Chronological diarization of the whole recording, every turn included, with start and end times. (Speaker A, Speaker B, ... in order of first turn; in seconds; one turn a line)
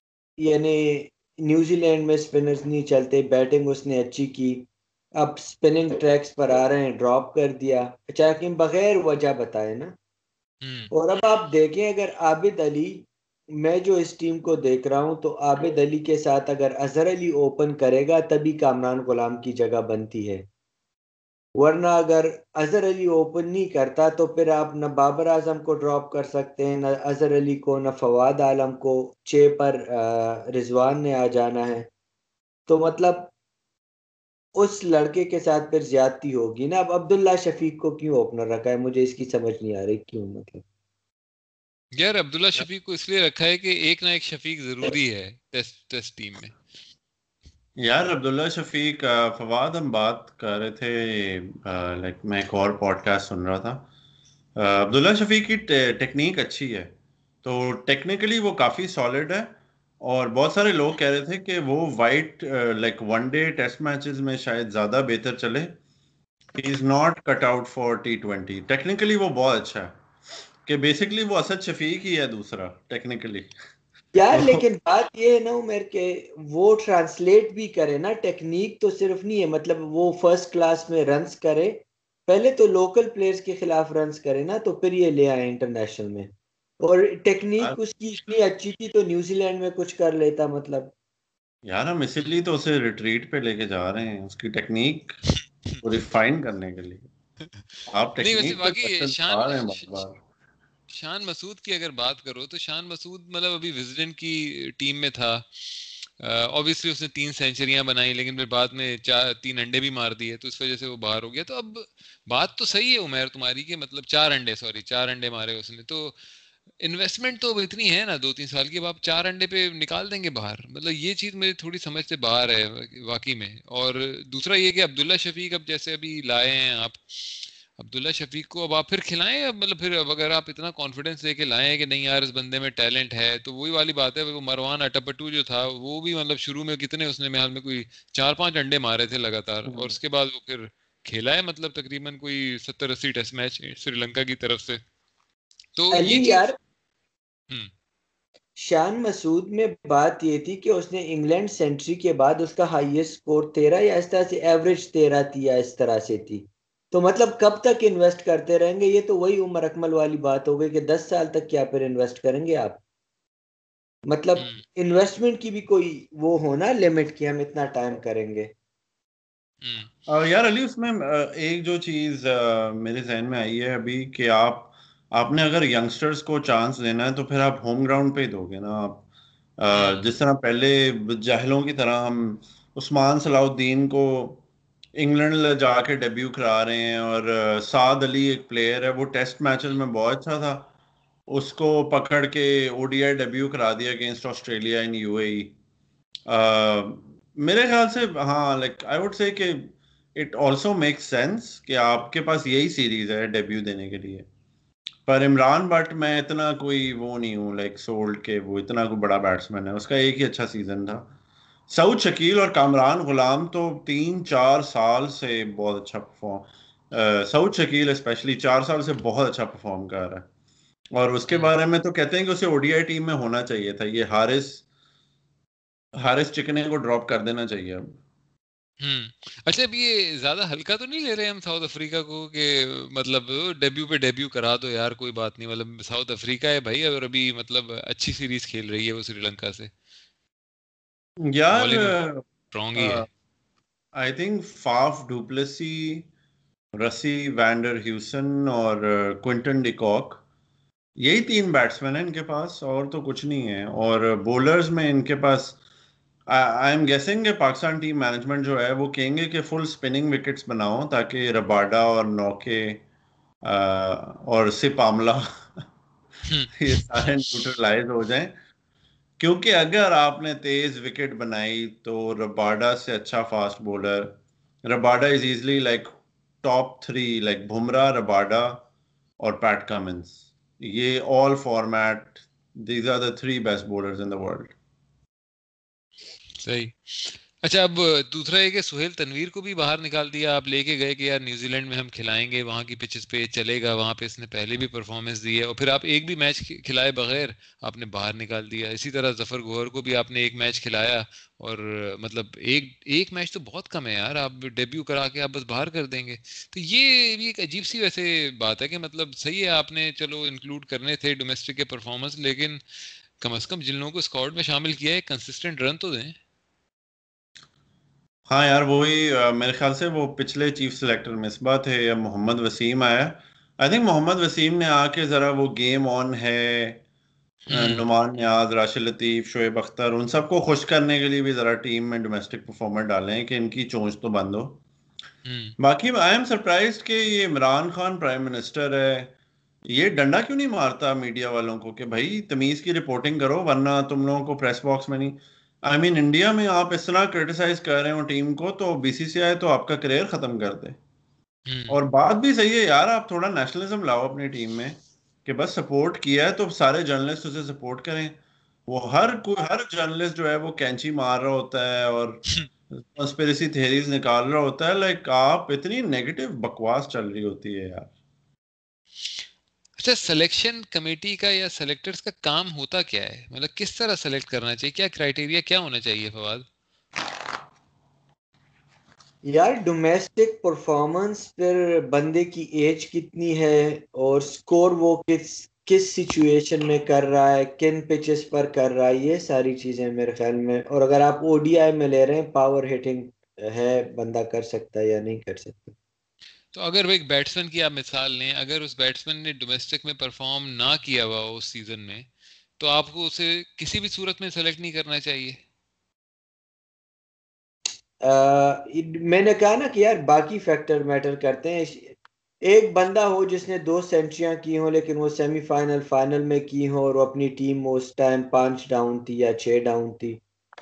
Speaker A: 0.4-9.9
Speaker B: 10.6-10.9
Speaker A: 10.9-20.4
Speaker A: 21.6-31.9
Speaker A: 32.7-33.3
Speaker A: 34.5-40.6
Speaker B: 42.0-46.5
Speaker C: 47.8-53.9
Speaker C: 54.5-65.8
Speaker C: 66.5-70.0
Speaker C: 70.7-73.5
Speaker A: 74.1-90.9
Speaker C: 74.3-74.6
Speaker C: 91.6-95.2
Speaker C: 95.8-97.1
Speaker B: 97.5-100.0
Speaker C: 97.9-100.2
Speaker B: 100.9-116.2
Speaker B: 116.8-144.8
Speaker C: 139.7-139.9
Speaker B: 145.7-146.5
Speaker A: 145.9-146.6
Speaker A: 148.6-162.8
Speaker A: 164.1-168.5
Speaker B: 164.3-164.6
Speaker B: 169.6-169.9
Speaker C: 170.1-179.0
Speaker C: 179.6-184.4
Speaker B: 179.7-180.1
Speaker C: 185.0-190.7
Speaker C: 191.3-195.5
Speaker C: 196.3-204.2
Speaker C: 205.1-211.1
Speaker C: 211.7-220.2
Speaker C: 220.9-224.6
Speaker C: 226.0-228.0
Speaker B: 228.8-239.7
Speaker C: 241.2-242.2
Speaker B: 241.5-242.0
Speaker B: 242.5-243.1
Speaker C: 242.8-243.1
Speaker C: 243.9-246.1
Speaker C: 246.8-250.2
Speaker C: 251.0-255.6
Speaker C: 256.3-262.8
Speaker C: 263.4-265.6
Speaker B: 266.3-267.0
Speaker C: 266.6-268.3
Speaker C: 269.2-275.9
Speaker C: 276.4-278.6
Speaker C: 279.2-284.5
Speaker B: 286.4-312.6
Speaker B: 313.2-316.1
Speaker C: 318.3-326.8
Speaker B: 327.5-327.8
Speaker C: 327.5-334.6
Speaker B: 335.2-335.5
Speaker C: 335.6-339.1
Speaker C: 339.7-350.8
Speaker B: 351.5-351.8
Speaker C: 351.7-367.9
Speaker B: 369.8-376.4
Speaker A: 379.2-395.8
Speaker B: 396.5-402.1
Speaker B: 402.6-405.4
Speaker A: 408.0-420.2